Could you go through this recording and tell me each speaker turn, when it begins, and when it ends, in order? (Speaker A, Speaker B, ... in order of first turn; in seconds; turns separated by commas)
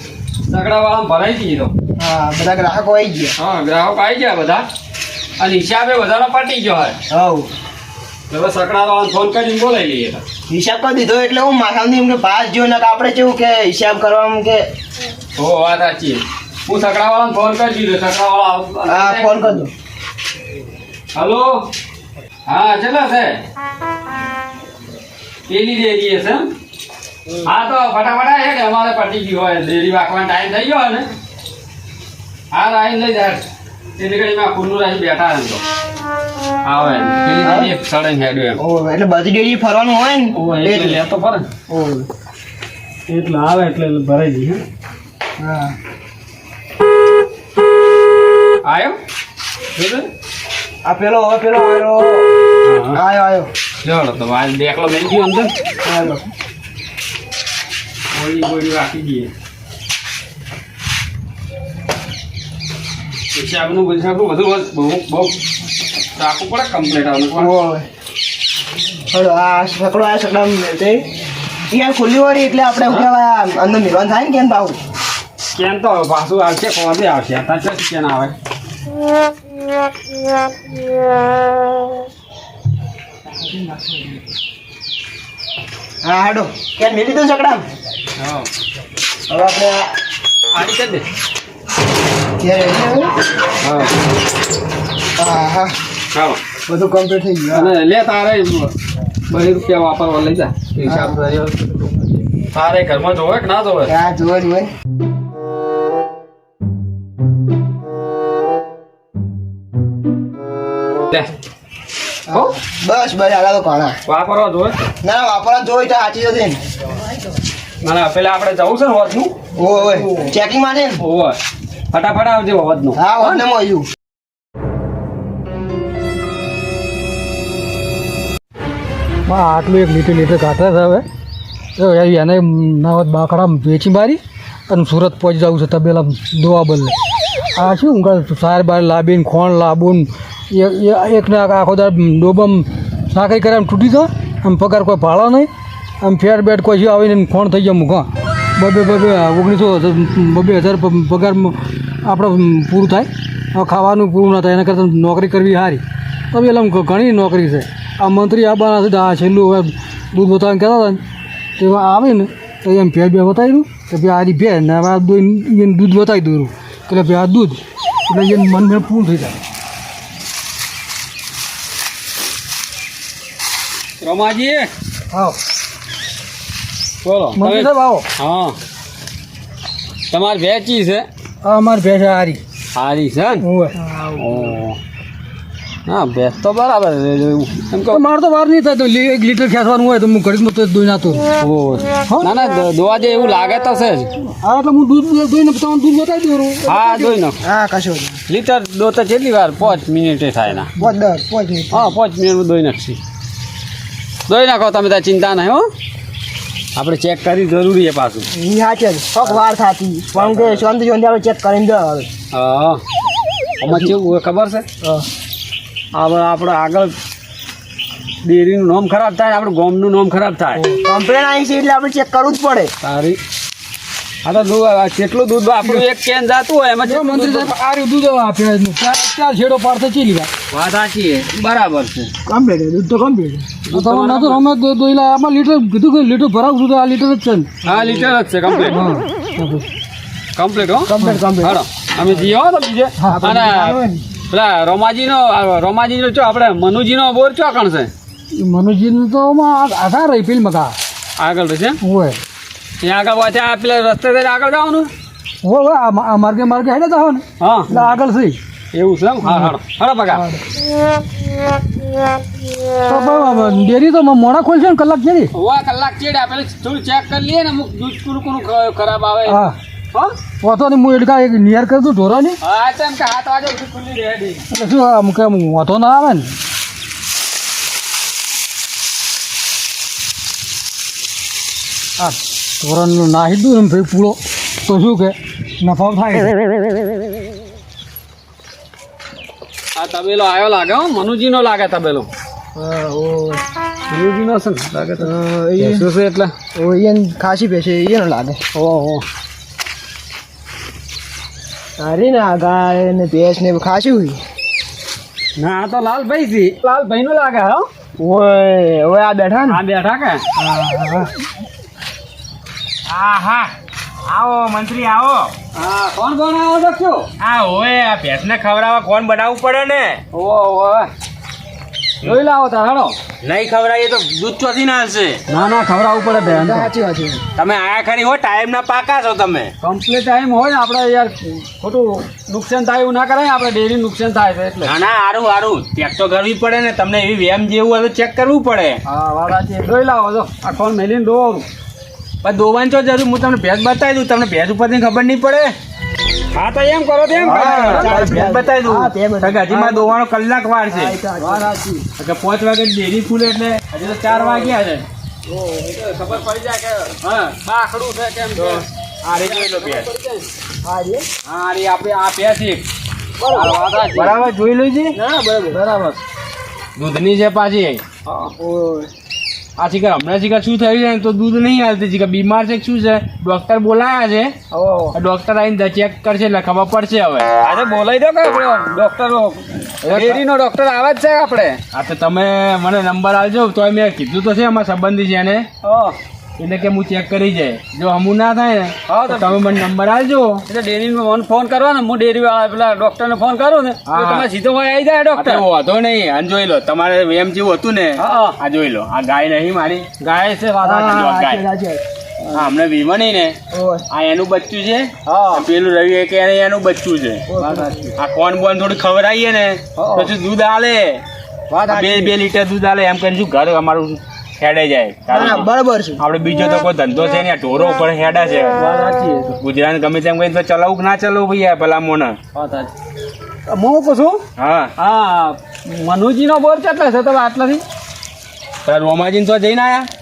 Speaker A: 0.5-1.7, Speaker B: 2.0-3.3, Speaker A: 3.4-4.7, Speaker A: 5.4-7.0, Speaker B: 7.1-7.5, Speaker A: 8.3-10.2, Speaker B: 10.5-14.7, Speaker A: 15.4-19.6, Speaker B: 18.9-19.7, Speaker A: 21.1-21.7, Speaker A: 22.5-23.4, Speaker A: 25.5-26.5, Speaker A: 27.4-31.1, Speaker A: 32.5-33.4, Speaker A: 34.0-35.6, Speaker A: 36.6-38.6, Speaker B: 37.4-37.7, Speaker B: 38.6-41.0, Speaker A: 40.3-41.5, Speaker B: 41.7-42.1, Speaker A: 43.1-44.6, Speaker B: 45.4-45.7, Speaker A: 48.6-49.0, Speaker A: 49.8-50.1, Speaker B: 50.8-52.2, Speaker A: 52.6-53.0, Speaker B: 52.9-53.5, Speaker A: 53.8-55.5, Speaker B: 55.8-56.2, Speaker A: 58.1-59.3, Speaker A: 63.3-65.4, Speaker A: 66.2-67.5, Speaker B: 67.3-67.8, Speaker B: 69.1-71.0, Speaker B: 71.7-74.8, Speaker A: 75.5-78.3, Speaker B: 83.6-84.0, Speaker B: 86.0-87.6, Speaker B: 89.3-89.9, Speaker A: 90.5-91.0, Speaker B: 92.4-93.1, Speaker A: 93.6-93.9, Speaker B: 95.2-95.7, Speaker A: 96.1-96.4, Speaker B: 96.7-97.7, Speaker A: 97.5-98.7, Speaker A: 99.3-101.8, Speaker B: 100.8-101.2, Speaker A: 102.5-103.9, Speaker B: 103.9-104.7, Speaker B: 112.3-114.0, Speaker A: 114.1-114.8, Speaker B: 115.0-116.6, Speaker A: 117.8-120.3, Speaker B: 119.6-121.0, Speaker A: 121.0-121.4, Speaker A: 121.9-123.4, Speaker B: 123.0-123.8, Speaker C: 129.2-131.0, Speaker C: 131.8-136.9, Speaker C: 137.6-145.5, Speaker C: 146.0-161.0, Speaker C: 161.6-169.3, Speaker A: 174.0-174.7, Speaker C: 175.1-175.4, Speaker A: 177.0-178.6, Speaker C: 177.4-178.0, Speaker A: 180.1-181.1, Speaker C: 181.4-182.4, Speaker A: 182.7-183.4, Speaker C: 183.4-183.8, Speaker A: 184.1-184.8, Speaker A: 185.8-188.0, Speaker C: 187.9-191.2, Speaker A: 191.4-194.1, Speaker C: 194.4-197.2, Speaker A: 196.7-197.4, Speaker B: 197.4-198.2, Speaker A: 198.3-200.7, Speaker B: 200.8-201.9, Speaker A: 201.7-203.0, Speaker A: 204.3-205.7, Speaker A: 206.8-208.3, Speaker B: 208.3-212.1, Speaker A: 210.1-210.6, Speaker A: 212.3-212.8, Speaker A: 213.6-214.6, Speaker A: 215.9-216.9, Speaker A: 218.2-220.6, Speaker B: 220.6-222.7, Speaker A: 222.8-223.2, Speaker A: 224.2-227.5, Speaker C: 226.9-230.3, Speaker A: 230.5-232.1, Speaker B: 232.2-233.5, Speaker A: 233.7-234.4, Speaker C: 233.7-237.5, Speaker A: 237.6-238.8, Speaker C: 238.7-239.6, Speaker A: 240.3-247.9, Speaker B: 240.9-241.6, Speaker C: 241.0-241.2, Speaker C: 243.0-243.3, Speaker B: 243.1-244.0, Speaker C: 248.3-250.7, Speaker A: 251.2-251.8, Speaker C: 251.8-252.2, Speaker A: 252.8-254.9, Speaker C: 255.4-258.4, Speaker A: 257.4-257.7, Speaker A: 258.7-260.2, Speaker C: 259.2-259.5, Speaker C: 260.1-260.4, Speaker C: 262.9-265.3, Speaker A: 265.3-270.1, Speaker C: 269.3-269.6, Speaker C: 270.4-272.4, Speaker A: 272.4-274.4, Speaker C: 274.5-276.3, Speaker C: 282.0-286.3, Speaker A: 289.8-292.1, Speaker B: 292.6-293.4, Speaker A: 293.9-296.3, Speaker B: 295.0-295.9, Speaker B: 296.5-298.4, Speaker A: 298.5-299.0, Speaker B: 301.8-304.2, Speaker A: 305.4-307.7, Speaker B: 308.0-309.6, Speaker A: 309.5-310.2, Speaker B: 310.4-311.1, Speaker D: 312.9-313.5, Speaker D: 314.1-315.3, Speaker A: 315.5-317.1, Speaker D: 317.2-320.0, Speaker A: 320.1-320.9, Speaker A: 322.0-322.9, Speaker D: 323.2-325.2, Speaker A: 325.3-326.7, Speaker B: 326.3-327.2, Speaker D: 327.4-329.5, Speaker A: 329.6-334.7, Speaker D: 334.6-338.8, Speaker A: 338.9-341.4, Speaker D: 342.2-345.5, Speaker A: 346.3-348.3, Speaker D: 347.2-350.9, Speaker B: 347.3-349.9, Speaker B: 350.7-351.5, Speaker A: 351.2-351.9, Speaker D: 352.0-354.9, Speaker A: 354.0-354.5, Speaker A: 355.3-360.3, Speaker D: 358.4-359.9, Speaker B: 360.6-361.1, Speaker D: 361.2-362.6, Speaker A: 363.3-364.2, Speaker D: 363.9-365.0, Speaker A: 365.5-366.0, Speaker D: 366.8-367.8, Speaker A: 368.1-368.3, Speaker B: 368.4-368.9, Speaker D: 369.6-374.4, Speaker A: 374.5-374.9, Speaker D: 374.9-377.3, Speaker A: 377.4-381.6, Speaker D: 379.8-380.2, Speaker D: 381.7-385.5, Speaker A: 385.6-385.9, Speaker D: 386.4-390.4, Speaker A: 388.9-389.4, Speaker A: 390.5-395.4, Speaker D: 393.9-394.3, Speaker D: 395.1-399.9, Speaker A: 398.0-398.4, Speaker A: 400.0-401.1, Speaker B: 400.6-401.8, Speaker D: 400.8-401.4, Speaker D: 402.3-403.4, Speaker B: 403.5-403.8, Speaker D: 403.9-407.2, Speaker A: 405.1-405.4, Speaker B: 407.3-407.8, Speaker A: 407.4-407.9, Speaker D: 407.9-411.0, Speaker A: 409.8-410.1, Speaker A: 411.5-412.1, Speaker D: 411.7-415.5, Speaker B: 415.1-416.0, Speaker A: 415.1-415.4, Speaker D: 416.0-418.6, Speaker A: 418.5-419.4, Speaker D: 419.4-422.2, Speaker A: 422.3-422.7, Speaker A: 423.5-424.2, Speaker D: 424.4-424.7, Speaker A: 424.8-427.6, Speaker D: 428.6-429.9